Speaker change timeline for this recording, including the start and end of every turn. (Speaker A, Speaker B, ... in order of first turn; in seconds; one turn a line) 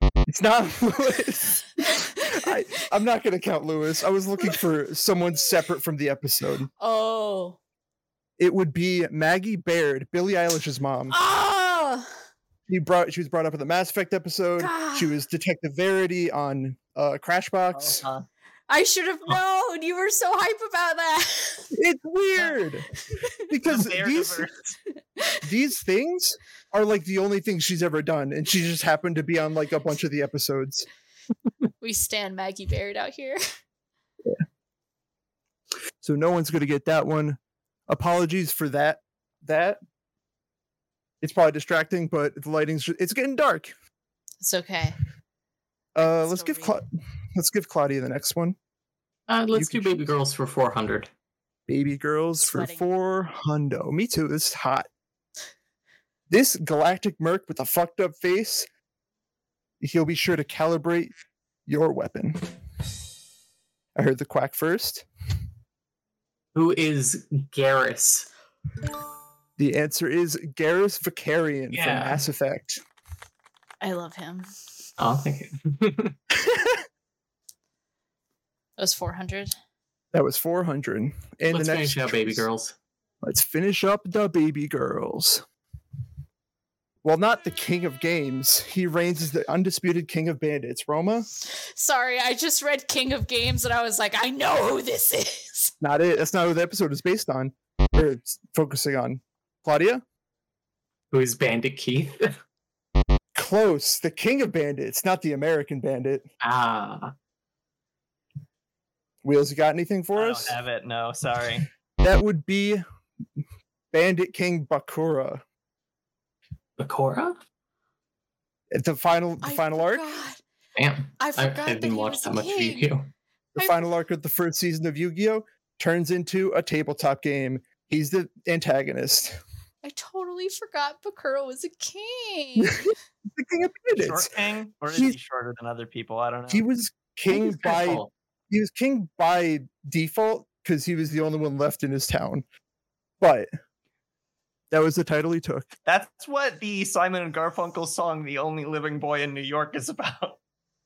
Speaker A: 0.2-6.7
Speaker B: 1.9-2.5
Speaker B: 6.8-7.6
Speaker A: 8.4-11.1
Speaker B: 11.1-12.1
Speaker A: 12.7-18.0
Speaker B: 14.6-15.2
Speaker C: 17.7-18.2
Speaker B: 18.7-21.7
Speaker A: 21.7-22.9
Speaker A: 23.5-24.5
Speaker C: 23.6-24.7
Speaker B: 25.2-25.4
Speaker A: 25.4-30.9
Speaker B: 31.8-33.4
Speaker A: 36.0-39.8
Speaker A: 41.2-43.7
Speaker B: 44.4-45.0
Speaker A: 45.9-48.5
Speaker B: 46.0-46.8
Speaker D: 49.3-51.1
Speaker A: 49.5-50.0
Speaker A: 51.7-54.9
Speaker B: 52.4-52.9
Speaker A: 56.3-58.7
Speaker A: 59.8-61.1
Speaker A: 61.6-62.5
Speaker A: 64.0-65.0
Speaker D: 66.5-68.3
Speaker A: 69.6-72.8
Speaker D: 71.7-72.2
Speaker B: 73.8-74.5
Speaker D: 75.0-76.2
Speaker A: 76.4-76.8
Speaker B: 78.8-79.5
Speaker A: 80.1-82.5
Speaker D: 81.5-82.8
Speaker A: 83.2-85.4
Speaker A: 87.0-91.3
Speaker B: 91.4-95.7
Speaker A: 95.8-100.0
Speaker D: 101.1-102.3
Speaker A: 103.3-106.2
Speaker D: 106.4-107.1
Speaker A: 109.2-110.6
Speaker C: 110.1-111.7
Speaker A: 112.0-112.8
Speaker A: 113.9-115.4
Speaker D: 116.8-117.4
Speaker A: 118.7-120.1
Speaker B: 119.4-120.4
Speaker D: 120.8-123.1
Speaker B: 121.2-122.9
Speaker A: 123.5-129.4
Speaker B: 123.6-123.9
Speaker B: 129.8-132.9
Speaker A: 132.6-134.3
Speaker C: 134.0-136.7
Speaker A: 134.9-135.2
Speaker A: 136.5-142.4
Speaker D: 137.3-138.1
Speaker A: 143.2-143.5
Speaker A: 144.7-145.7
Speaker C: 145.8-150.4